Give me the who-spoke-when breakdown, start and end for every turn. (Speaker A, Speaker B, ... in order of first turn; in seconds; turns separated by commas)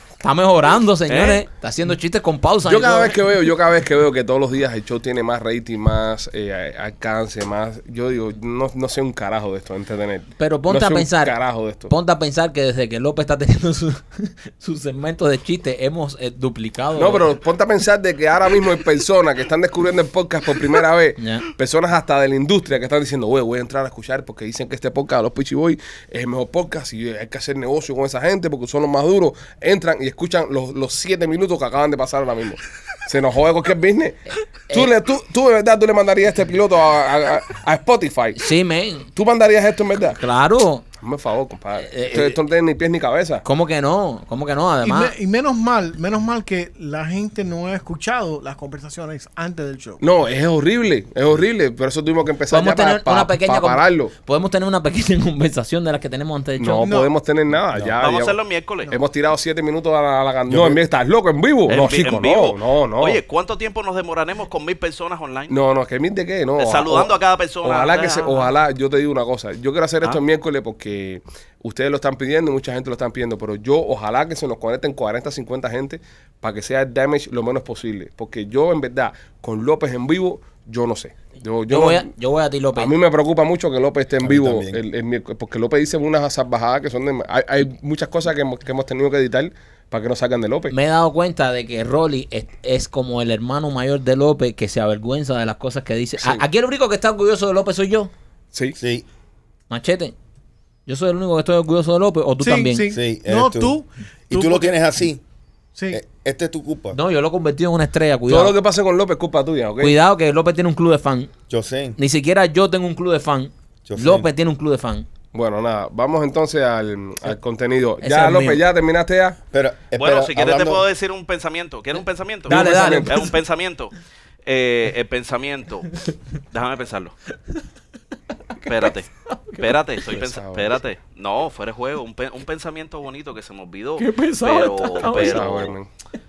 Speaker A: 0.2-3.2, Speaker B: 1.1-1.4, Speaker C: 2.7-11.9, Speaker A: 10.4-17.3, Speaker C: 17.0-34.2, Speaker A: 21.2-21.5, Speaker C: 34.7-38.4, Speaker A: 38.4-39.1, Speaker C: 39.1-40.2, Speaker A: 40.2-40.9, Speaker C: 41.0-43.4, Speaker A: 41.8-42.4, Speaker A: 43.4-45.1, Speaker D: 44.8-50.0, Speaker C: 50.0-54.1, Speaker A: 52.5-56.9, Speaker C: 56.6-63.2, Speaker D: 56.8-57.1, Speaker E: 57.7-58.0, Speaker B: 58.0-58.9, Speaker E: 60.5-60.8, Speaker B: 61.7-65.5, Speaker C: 65.5-82.0, Speaker B: 66.6-68.5, Speaker A: 81.7-82.9, Speaker C: 82.8-90.7, Speaker E: 84.2-84.8, Speaker A: 90.7-98.1, Speaker E: 98.8-99.0, Speaker A: 99.7-100.2, Speaker A: 100.9-102.9, Speaker D: 102.4-104.7, Speaker E: 102.9-103.8, Speaker E: 104.3-105.2, Speaker D: 105.8-106.0, Speaker E: 105.9-107.0, Speaker A: 106.9-108.6, Speaker C: 108.3-110.0, Speaker A: 109.8-111.3, Speaker E: 111.5-112.0, Speaker A: 112.0-115.0, Speaker E: 113.8-114.3, Speaker C: 115.3-119.4, Speaker A: 118.0-118.6, Speaker E: 119.5-120.8, Speaker B: 120.0-123.9, Speaker C: 122.5-123.3, Speaker A: 122.5-123.3, Speaker B: 124.5-126.0, Speaker B: 126.5-127.2, Speaker B: 128.7-135.8, Speaker A: 129.3-129.8, Speaker C: 130.1-130.8, Speaker A: 134.0-135.5, Speaker C: 135.2-135.9